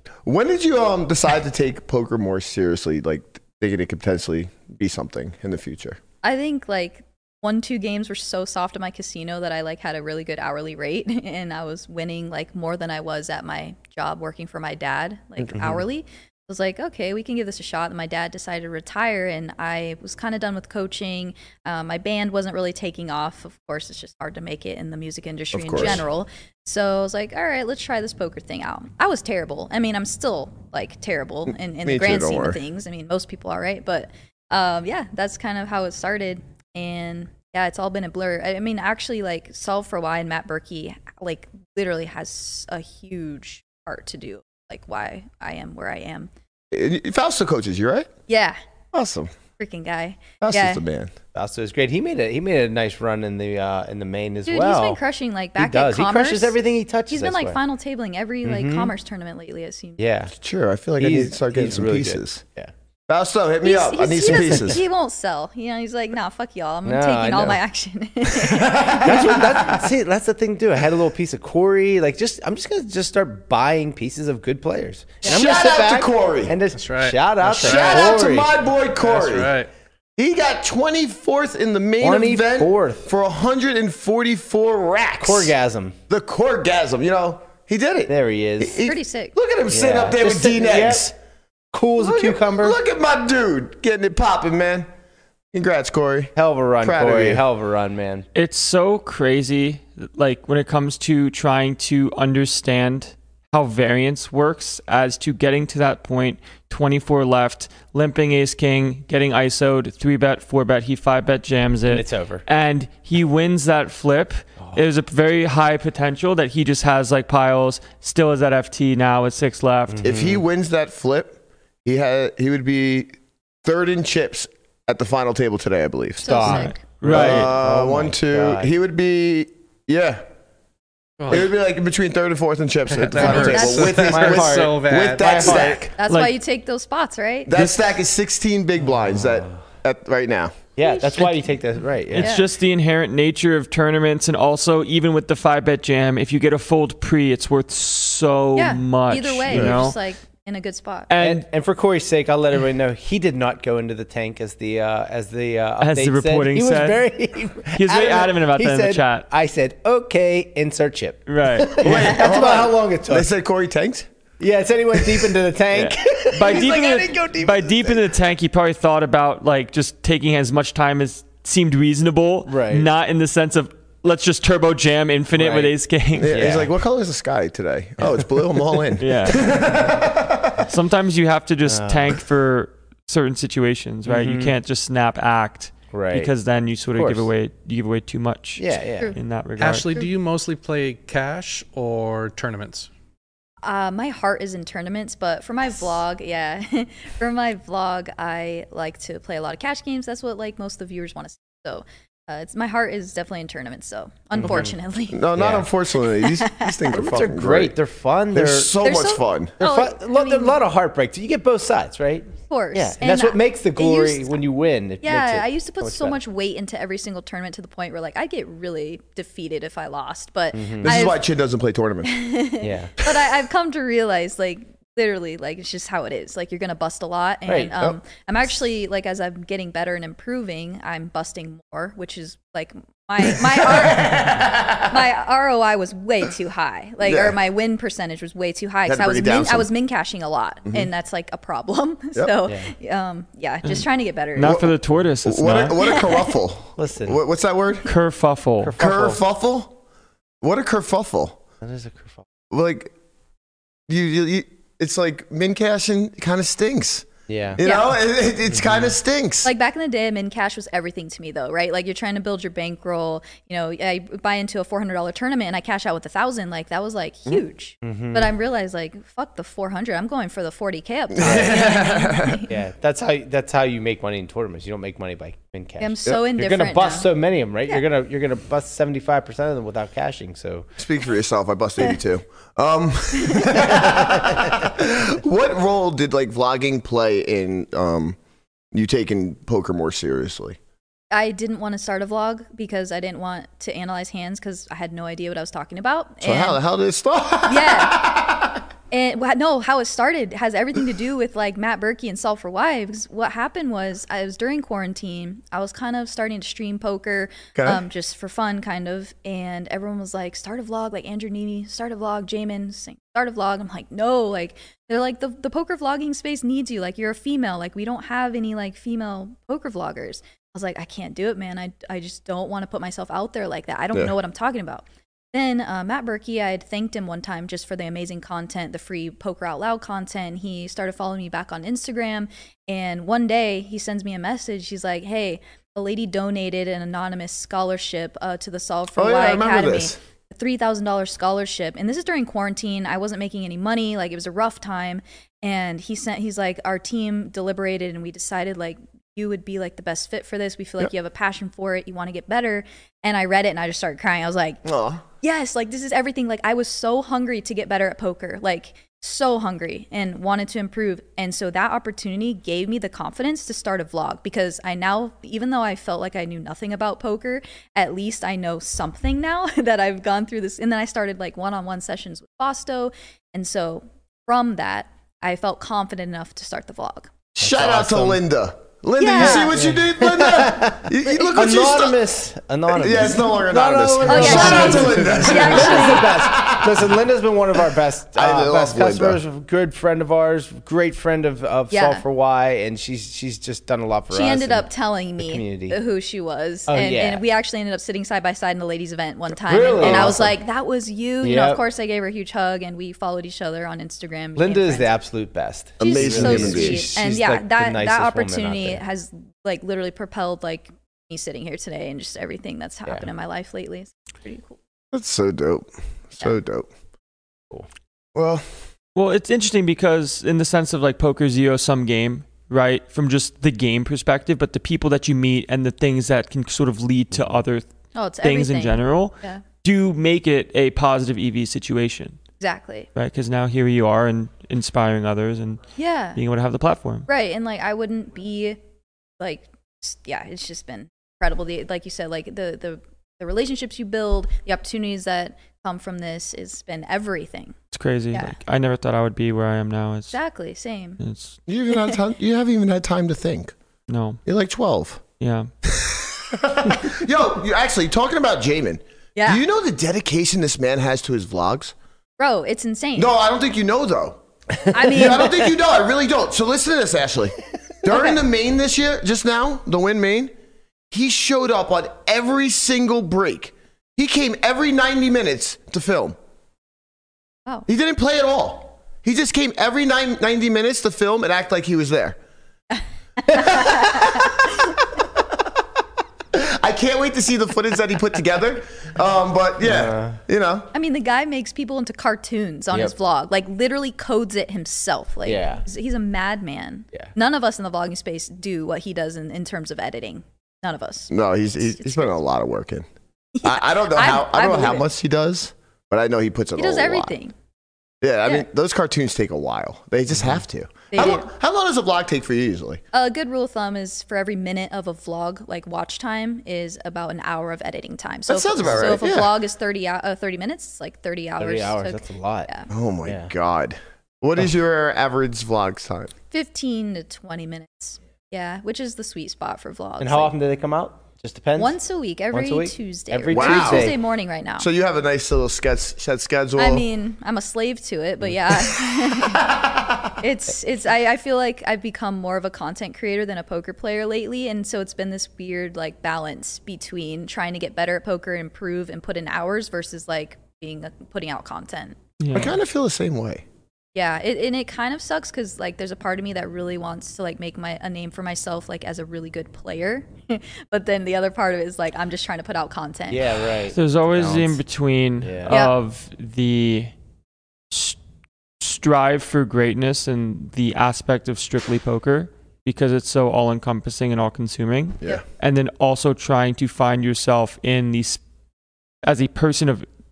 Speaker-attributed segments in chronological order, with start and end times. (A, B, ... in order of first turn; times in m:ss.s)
0:00.2-0:06.0 A
0:06.2-0:46.3 B
0:15.6-0:15.8 C
0:25.5-0:26.0 A
0:31.8-0:32.6 A
0:46.7-0:48.1 A
0:48.3-0:48.6 B
0:48.9-0:49.3 A
0:49.6-0:50.8 B
0:50.4-0:51.1 A
0:51.3-0:55.0 C
0:54.5-0:56.6 B
0:55.6-0:57.6 C
0:57.1-1:00.0 B
0:58.4-0:58.9 C
1:00.0-1:00.3 C
1:00.3-1:02.4 A
1:01.0-1:02.7 C
1:03.1-1:04.8 A
1:03.6-1:09.1 B
1:04.4-1:04.7 C
1:06.8-1:07.6 C
1:08.3-1:09.9 A
1:09.0-1:18.5 C
1:15.2-1:16.6 A
1:16.8-1:18.2 D
1:17.5-1:19.5 A
1:19.0-1:19.7 D
1:20.2-1:25.6 A
1:22.0-1:23.1 C
1:25.2-1:26.0 C
1:26.1-1:31.2 A
1:28.1-1:28.8 C
1:28.8-1:29.4 B
1:29.7-1:31.1 C
1:31.7-1:32.8 C
1:32.0-1:34.9 A
1:35.5-1:37.4 A
1:36.4-1:38.3 C
1:38.4-2:00.1 E
1:51.9-1:52.4 C
1:59.9-2:00.4 C
2:00.0-2:03.1 A
2:03.6-2:10.2 A
2:06.2-2:06.8 B
2:06.2-2:08.7 C
2:06.4-2:07.5 E
2:11.2-2:11.5 D
2:11.3-2:15.9 A
2:13.0-2:15.8 D
2:13.2-2:14.1 B
2:13.4-2:15.8 C
2:16.0-2:17.5 B
2:16.1-2:16.4 E
2:17.5-2:20.6 A
2:19.1-2:19.6 C
2:20.8-2:22.3 C
2:20.8-2:21.3 B
2:22.1-2:30.0 E
2:22.2-2:22.5 B
2:28.6-2:31.1 B
2:29.5-2:29.8 A
2:31.1-2:31.4 E
2:31.2-2:43.3 C
2:35.8-2:37.1 E
2:37.7-2:39.3 E
2:41.3-2:42.2 E
2:41.8-2:44.1 A
2:44.4-2:48.0 C
2:45.0-2:45.4 A
2:45.7-2:56.6 E
2:52.5-2:52.9 C
2:55.4-2:55.7 C
2:56.2-3:00.6 A
2:56.3-2:56.7 C
2:59.0-2:59.6 E
3:00.7-3:09.9 E
3:01.7-3:02.1 C
3:04.1-3:04.6 C
3:05.9-3:06.3 C
3:07.0-3:07.3 C
3:08.6-3:09.1 C
3:09.6-3:12.9 D
3:13.6-3:25.3 B
3:24.4-3:24.7 C
3:25.1-3:27.8 A
3:25.4-3:25.7 C
3:26.1-3:27.1 B
3:26.9-3:28.8 C
3:28.3-3:29.6 A
3:28.8-3:30.6 B
3:29.6-3:36.2 C
3:32.5-3:34.4 B
3:35.0-3:41.2 B
3:40.5-3:41.0 C
3:40.8-3:42.2 A
3:42.0-4:04.6 B
3:42.6-3:42.9 C
3:47.5-3:47.7 C
3:53.2-3:55.0 A
3:57.0-3:57.4 A
3:58.9-3:59.7 A
4:02.5-4:02.7 C
4:03.6-4:05.8 E
4:04.4-4:04.7 A
4:05.2-4:07.9 A
4:05.8-4:06.3 B
4:06.8-4:07.2 C
4:07.8-4:08.8 E
4:08.6-4:09.2 C
4:08.8-4:09.8 A
4:10.4-4:11.4 A
4:11.6-4:12.2 C
4:12.5-4:12.9 A
4:13.9-4:19.5 A
4:17.3-4:17.6 C
4:17.6-4:17.9 B
4:18.5-4:18.9 C
4:19.4-4:32.5 B
4:27.8-4:28.3 C
4:31.1-4:32.4 A
4:31.2-4:31.6 C
4:32.5-4:40.7 C
4:35.8-4:37.1 B
4:40.8-4:48.2 A
4:43.2-4:43.6 B
4:43.6-4:44.3 C
4:48.7-4:50.6 A
4:51.1-4:56.6 B
4:56.2-4:58.5 A
4:57.4-4:58.1 B
4:58.9-5:54.6 B
5:07.6-5:07.8 A
5:39.0-5:40.0 A
5:54.6-5:55.0 A
5:55.2-6:17.1 B
6:17.4-6:22.0 A
6:17.4-6:18.2 C
6:19.0-6:19.6 B
6:19.2-6:34.7 C
6:22.7-6:27.0 A
6:24.0-6:26.1 B
6:28.2-6:29.2 A
6:31.7-6:32.0 B
6:34.1-6:44.9 B
6:35.2-6:35.8 C
6:36.7-6:37.2 C
6:39.5-6:40.3 C
6:39.7-6:40.3 A
6:41.2-6:41.6 C
6:44.4-6:48.8 C
6:45.8-6:46.9 A
6:45.8-6:54.6 B
6:54.9-6:56.7 A
6:58.2-6:58.4 A
6:59.0-7:07.7 E
7:08.0-7:09.4 B
7:08.2-7:12.2 E
7:12.4-7:12.9 B
7:13.0-7:15.6 E
7:15.8-7:16.2 B
7:16.2-7:17.1 E
7:17.1-7:18.6 B
7:19.2-7:27.6 B
7:27.7-7:30.2 E
7:28.1-7:28.4 B
7:30.1-7:31.0 B
7:31.0-7:31.4 E
7:31.5-7:33.5 A
7:31.7-7:32.0 B
7:33.9-7:34.2 E
7:34.3-7:35.0 A
7:35.2-7:35.5 E
7:35.7-7:41.7 A
7:39.2-7:39.4 B
7:42.2-7:43.1 B
7:43.0-7:44.2 A
7:44.7-7:45.5 B
7:44.8-7:50.3 A
7:47.9-7:48.2 B
7:50.9-7:56.2 A
7:57.7-8:02.2 A
8:02.7-8:04.5 B
8:03.3-8:04.6 A
8:06.3-8:10.7 A
8:09.6-8:10.2 C
8:10.7-8:22.2 B
8:15.2-8:15.6 C
8:21.1-8:22.9 A
8:23.4-8:24.9 B
8:23.4-8:27.2 A
8:26.6-8:27.3 B
8:28.0-8:32.8 A
8:30.9-8:31.3 B
8:32.9-8:42.7 B
8:38.3-8:39.3 A
8:41.4-8:42.5 C
8:42.7-8:46.1 A
8:43.0-8:43.3 C
8:46.3-8:50.3 B
8:50.0-8:51.8 C
8:51.6-8:54.7 B
8:52.3-8:54.0 C
8:53.3-8:54.0 A
8:54.6-8:56.8 A
8:56.6-8:59.6 B
8:58.8-8:59.8 A
9:00.1-9:12.0 B
9:12.2-9:12.6 E
9:12.3-9:13.4 A
9:14.0-9:23.4 B
9:23.1-9:24.6 C
9:23.7-9:26.9 E
9:25.2-9:25.5 C
9:27.7-9:28.0 E
9:28.6-9:38.2 E
9:39.0-9:39.9 E